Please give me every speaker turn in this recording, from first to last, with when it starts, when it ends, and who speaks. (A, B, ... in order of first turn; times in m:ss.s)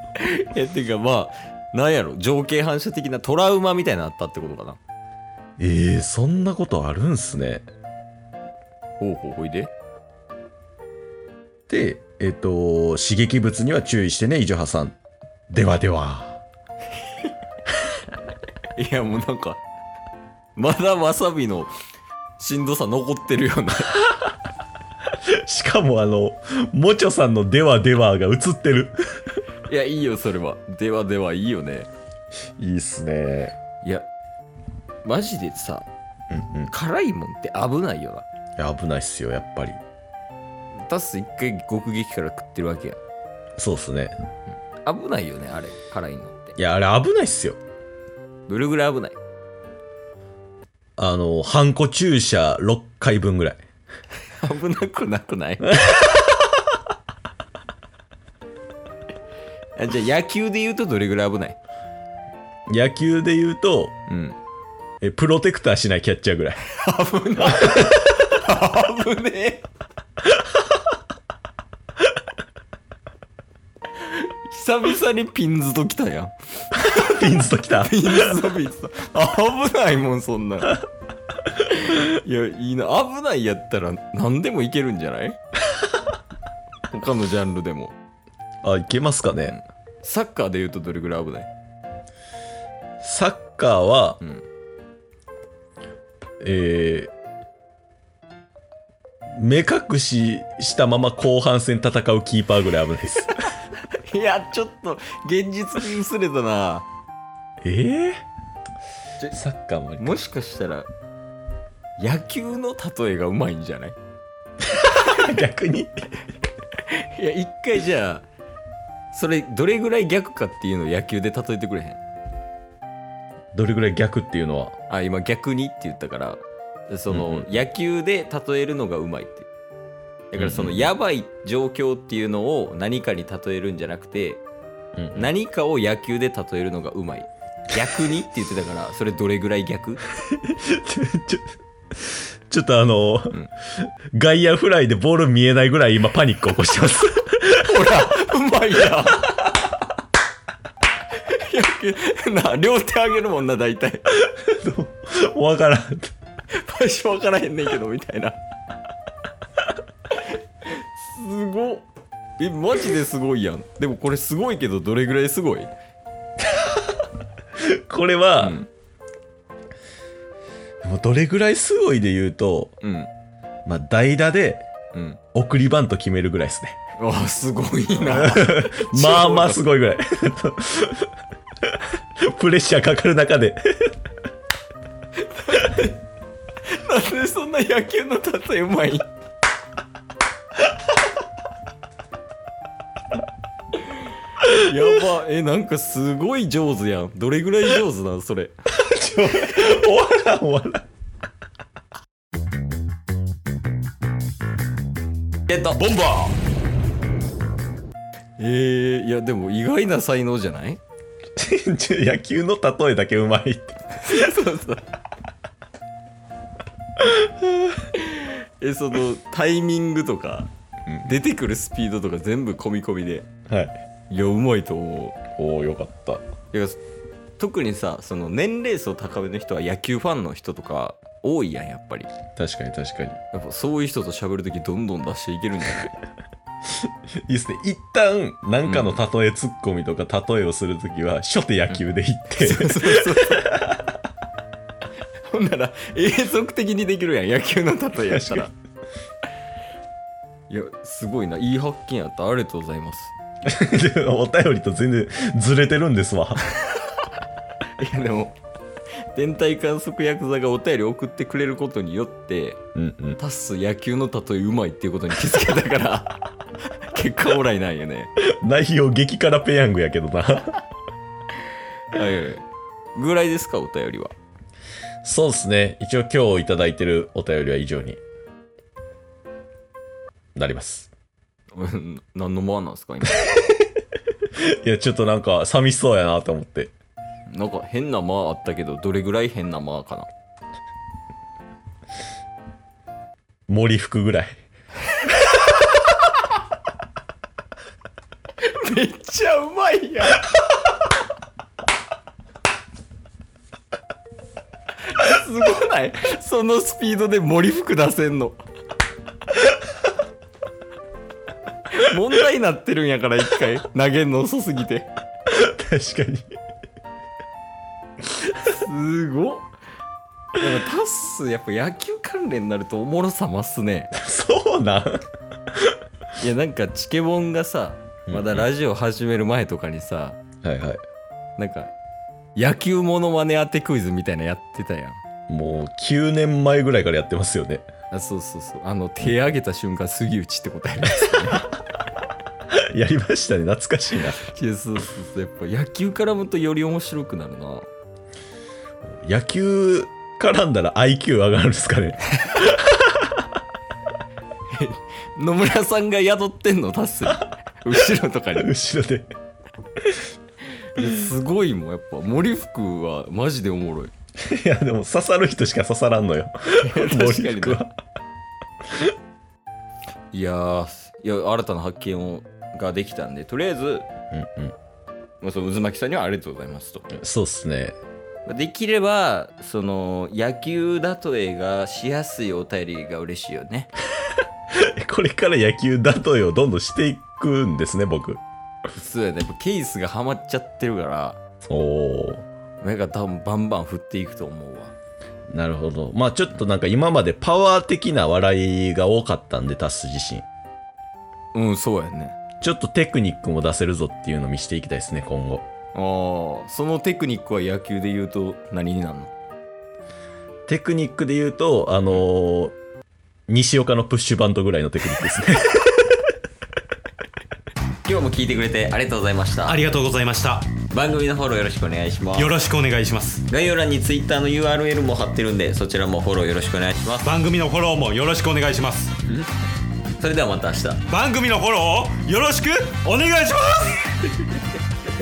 0:00.2-0:04.8 A
0:05.6-0:07.6 B
0:09.0-0:09.7 A
0:11.7-0:15.0 B
0:15.5-0:16.4 B
0:18.8-0:19.6 A
0:20.6-0:21.7 A
0:22.4-0:24.0 A
0:25.2-0:29.4 B
0:29.7-0:31.9 A
0:32.6-0:33.6 B
0:33.8-0:34.1 A
0:35.0-0:35.9 A
0:36.3-0:36.7 B
0:36.7-0:38.3 A
0:38.6-0:39.8 B
0:40.8-0:43.0 A
0:43.6-0:44.2 B
0:44.9-0:46.6 A
0:46.6-0:47.6 B
0:48.5-0:49.2 A
0:51.0-0:53.6 B
0:54.4-0:56.0 A
0:55.7-0:56.2 B
0:59.8-1:01.6 A
1:02.7-1:04.0 B
1:04.1-1:04.4 A
1:05.0-1:06.6 B
1:06.7-1:09.6 A
1:07.4-1:07.9 B
1:14.0-1:16.3 A
1:16.7-1:18.4 B
1:17.8-1:20.8 A
1:21.6-1:25.4 A
1:26.9-1:28.0 A
1:28.6-1:29.6 B
1:29.5-1:31.5 A
1:33.0-1:34.2 B
1:36.4-1:37.1 B
1:39.3-1:43.4 B
1:43.9-1:46.9 A
1:47.6-1:48.2 B
1:49.3-1:50.1 B
1:50.0-1:50.9 A
1:52.0-1:54.0 A
1:54.8-1:56.0 B
1:56.7-1:58.3 A
1:59.1-2:02.0 A
2:03.5-2:04.8 B
2:04.9-2:09.5 A
2:07.1-2:07.5 B
2:10.3-2:14.4 A
2:10.4-2:10.9 B
2:15.0-2:15.3 B
2:15.1-2:20.0 A
2:20.2-2:28.1 B
2:27.5-2:29.9 A
2:31.1-2:34.0 A
2:34.1-2:36.1 B
2:36.5-2:38.4 A
2:40.1-2:41.9 A
2:42.4-2:45.7 A
2:46.5-2:47.0 B
2:47.6-2:48.6 B
2:48.4-2:48.7 A
2:50.8-2:52.8 B
2:52.8-2:53.1 A
2:53.7-2:54.7 B
2:54.9-2:55.2 A
2:55.3-2:56.8 B
2:57.0-2:59.7 A
2:58.0-3:01.1 B
3:01.7-3:04.0 B
3:05.2-3:06.0 A
3:06.7-3:09.1 A
3:13.8-3:18.6 A
3:18.8-3:20.9 B
3:25.5-3:26.0 A
3:25.8-3:26.3 C
3:28.4-3:30.8 A
3:31.4-3:34.3 B
3:34.0-3:34.8 A
3:37.0-3:37.7 B
3:37.9-3:40.5 A
3:41.0-3:43.3 A
3:43.5-3:43.8 B
3:44.1-3:45.2 A
3:45.4-3:46.2 B
3:46.5-3:46.8 A
3:47.4-3:52.1 A
3:52.4-3:53.2 B
3:53.3-3:56.0 A
3:57.3-4:03.9 B
3:58.6-3:59.0 A
4:02.4-4:03.6 A
4:05.3-4:08.5 A
4:08.0-4:08.5 B
4:10.5-4:13.1 A
4:13.5-4:16.4 B
4:17.8-4:18.4 A
4:19.1-4:22.6 A
4:22.8-4:23.2 B
4:23.2-4:26.2 A
4:26.9-4:28.1 A
4:28.2-4:30.6 B
4:31.9-4:34.1 A
4:35.0-4:38.0 B
4:40.4-4:40.9 B
4:41.5-4:43.4 A
4:44.3-4:46.7 B
4:47.3-4:50.1 A
4:53.5-4:54.4 B
4:58.4-5:00.3 A
5:04.8-5:08.4 A
5:11.7-5:14.9 A
5:15.3-5:16.3 B
5:18.4-5:19.5 A
5:20.4-5:23.9 A
5:24.0-5:25.8 B
5:26.2-5:30.2 A
5:28.1-5:28.5 B
5:30.4-5:30.8 B
5:31.4-5:31.7 A
5:32.4-5:35.0 A
5:35.3-5:37.7 B
5:37.9-5:41.5 A
5:42.5-5:44.2 B
5:44.2-5:47.7 A
5:48.9-5:53.2 B
5:54.5-5:58.5 A
5:58.4-5:59.1 B
6:00.8-6:03.9 A
6:04.2-6:07.7 B
6:06.6-6:07.7 A
6:10.1-6:13.9 A
6:14.1-6:14.6 B
6:15.2-6:16.9 A
6:16.9-6:17.8 B
6:18.3-6:23.7 A
6:24.5-6:28.2 B
6:28.7-6:31.2 A
6:31.5-6:32.3 B
6:32.6-6:34.7 A
6:35.3-6:40.3 B
6:41.3-6:42.2 A
6:42.4-6:45.4 B
6:45.8-6:49.1 A
6:50.5-6:52.6 B
6:53.3-6:55.7 B
6:57.8-6:59.6 A
6:59.5-7:00.5 C
7:00.7-7:02.4 A
7:02.2-7:03.2 C
7:03.3-7:07.1 A
7:07.0-7:09.0 C
7:10.0-7:10.9 A
7:10.9-7:13.8 C